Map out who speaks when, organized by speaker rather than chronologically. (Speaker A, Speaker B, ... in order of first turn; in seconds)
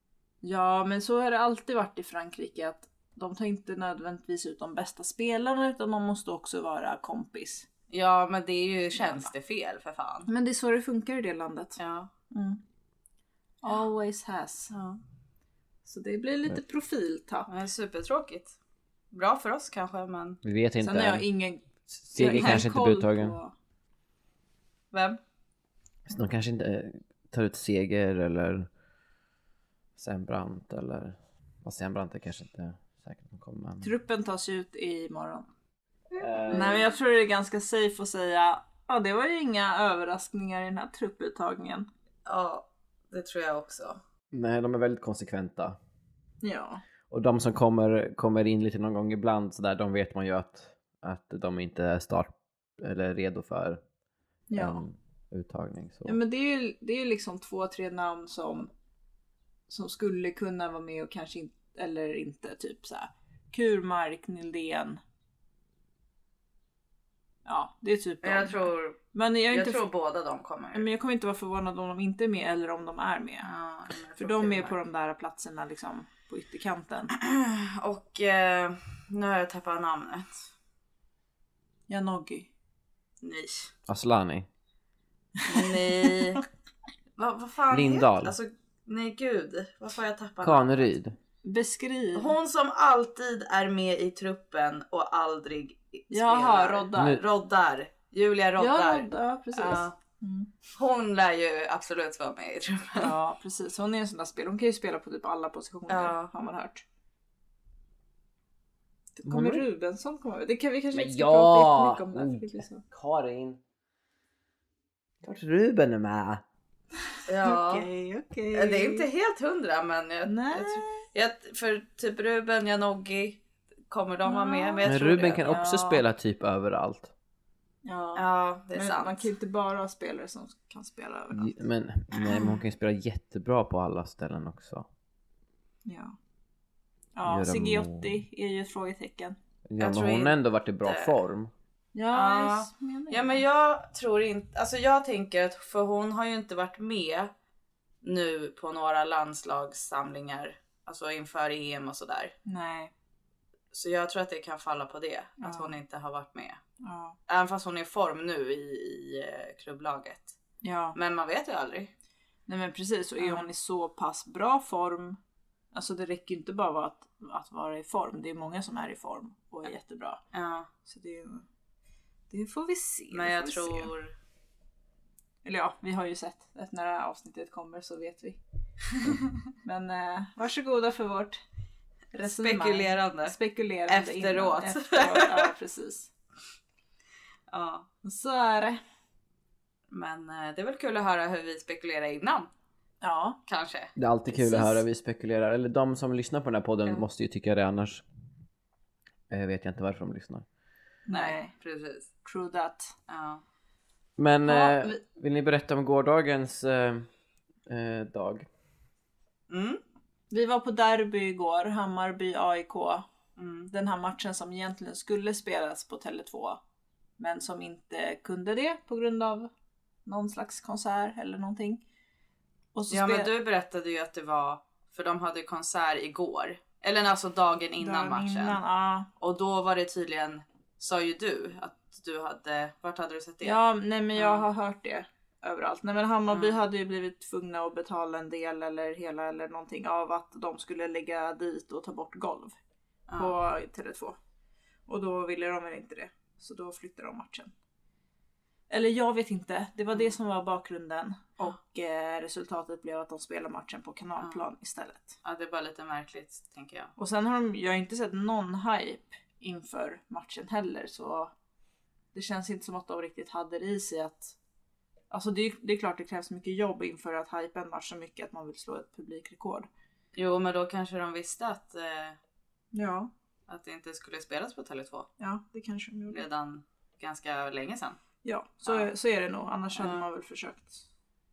Speaker A: 0.4-7.7, 8.9-9.3, 10.2-11.8, 12.3-12.6, 13.6-14.7, 15.8-17.5, 20.8-23.5, 33.8-35.5, 36.5-41.9, 46.4-46.8, 54.5-54.8, 56.0-58.7, 59.7-65.0, 67.5-69.8, 70.7-73.5, 74.2-77.1, 81.9-82.5, 85.5-86.1, 91.4-92.3, 96.1-97.2, 98.6-100.5, 103.0-106.8, 109.2-112.8, 117.4-119.0, 120.2-121.0, 124.2-124.9, 125.4-126.0, 127.8-131.5, 132.2-132.6, 135.8-136.1, 137.1-139.4, 141.9-143.4, 152.4-152.9, 155.4-155.7, 156.8-157.2, 160.6-160.9, 162.5-165.2, 165.7-170.2, 170.8-171.4, 172.3-173.9, 175.4-178.4, 179.6-181.4, 182.1-186.1, 188.0-188.8, 193.0-193.4, 194.3-194.8, 201.1-201.5, 202.2-202.9, 204.4-205.0, 210.3-213.0, 213.7-216.6, 217.2-219.5, 220.1-221.8, 222.7-223.3, 227.8-229.1, 233.4-242.6, 243.1-244.2, 244.9-247.5, 248.7-255.2, 257.0-261.3, 262.1-264.4, 265.1-269.7, 272.7-273.1, 275.2-276.2, 278.2-280.8
Speaker B: 7.9-10.3, 11.8-12.1, 14.7-15.0, 17.5-18.6, 19.1-20.4, 24.9-25.2, 42.2-44.0, 68.2-70.9, 73.4-74.8, 77.1-80.4, 83.2-83.7, 85.5-86.4, 87.2-90.9, 92.1-100.0, 100.8-103.1, 105.9-106.3, 117.3-117.9, 118.5-125.5, 128.2-129.3, 139.8-141.1, 142.1-147.3, 148.0-152.3, 153.7-156.6, 157.3-160.4, 160.9-161.9, 163.2-163.5, 170.3-170.7, 173.1-174.1, 182.2-183.4, 183.9-185.5, 187.5-187.9, 189.9-192.5, 193.5-193.9, 201.1-202.1, 203.1-203.4, 209.5-209.8, 213.4-213.7, 222.9-228.6, 229.2-233.6, 234.1-234.4, 236.3-236.6, 243.1-243.3, 255.2-256.9, 270.1-272.2, 273.5-275.1, 276.1-278.0, 279.8-280.1
Speaker C: 20.4-21.2, 21.9-23.3, 26.1-28.7, 30.0-33.9, 36.2-36.9, 44.3-45.8, 47.1-53.8, 54.5-56.2, 83.9-84.5, 87.7-88.3, 90.4-91.2, 96.9-97.2, 109.3-109.6, 110.9-113.6, 115.2-116.4, 124.8-127.1, 131.3-134.9, 137.2-138.2, 139.7-141.5, 193.9-198.0, 199.3-200.4, 204.2-207.1, 207.7-208.4